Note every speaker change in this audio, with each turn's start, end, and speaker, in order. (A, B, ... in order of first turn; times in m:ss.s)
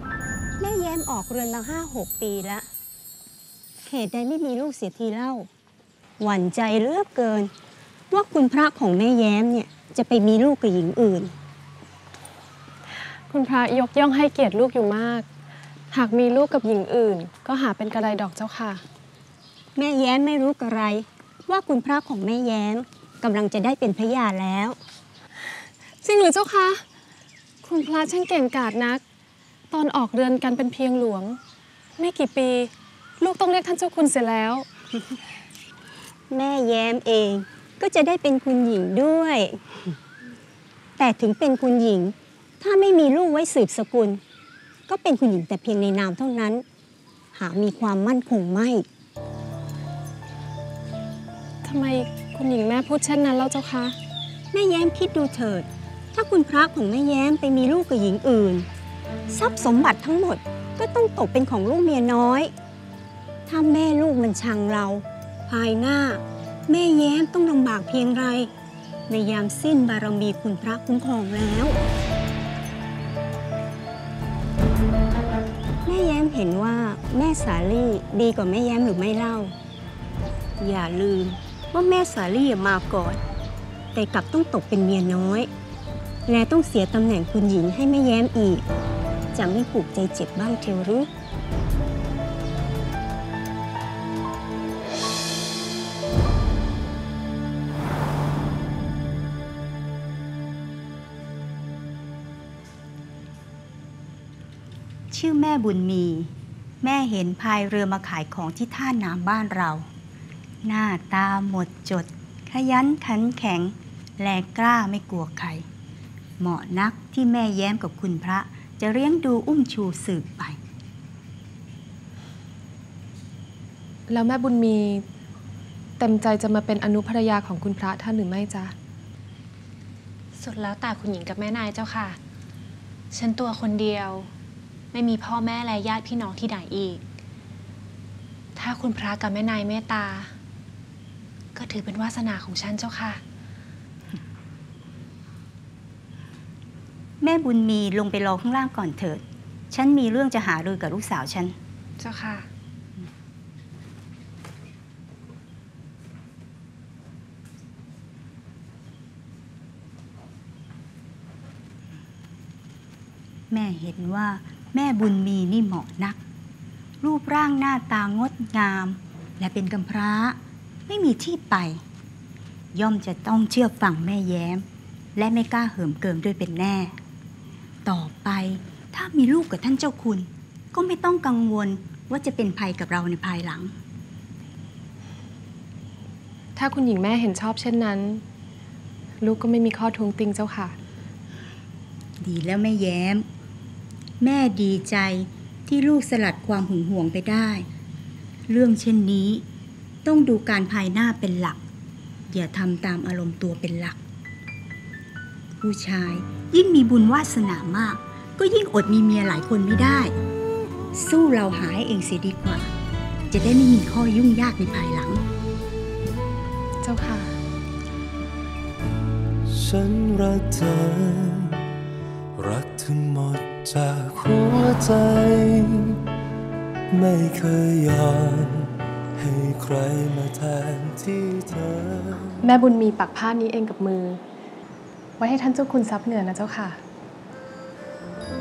0:00.6-0:02.6 A
0:03.8-0:05.5 A
0:06.2-0:07.5 A
0:08.1-0:11.3 A
0:13.3-0:15.2 B
0:15.9-0:18.8 B
0:19.8-0:24.8 A
0:26.0-0:26.8 B
0:27.6-0:29.0 B
0:29.7-0:31.4 B
0:32.0-0:32.7 B
0:33.2-0:34.6 B
0:36.3-0:39.6 A
0:41.0-0:44.2 A
0:44.9-0:46.6 A
0:47.3-0:48.8 A
0:51.6-0:53.9 B
0:54.5-0:58.7 A
0:59.3-1:02.5 A
1:03.5-1:08.5 A
1:09.1-1:11.8 A
1:15.8-1:19.5 A
1:20.6-1:23.2 A
1:23.9-1:25.5 A
1:26.3-1:28.6 A
1:29.3-1:31.1 A
1:45.1-1:49.9 C
1:50.6-1:55.6 C
1:56.4-2:00.6 C
2:04.1-2:05.0 B
2:06.0-2:08.7 B
2:10.4-2:12.2 D
2:13.1-2:14.3 D
2:14.9-2:17.0 D
2:18.6-2:20.3 D
2:21.5-2:23.2 D
2:27.2-2:31.6 C
2:32.0-2:32.4 D
2:43.5-2:46.2 C
2:47.0-2:51.8 C
2:52.7-2:57.0 C
2:57.8-3:03.7 C
3:06.6-3:08.2 B
3:09.2-3:10.8 B
3:12.2-3:13.2 C
3:14.2-3:17.7 C
3:18.5-3:19.4 C
3:20.0-3:21.6 C
3:22.3-3:24.0 C
3:25.6-3:30.2 C
3:30.9-3:32.7 C
3:33.3-3:35.2 C
3:36.8-3:37.4 B
3:39.5-3:41.6 E
3:42.4-3:46.0 E
3:46.9-3:52.4 E
3:52.4-3:54.2 B
3:55.2-3:56.8 B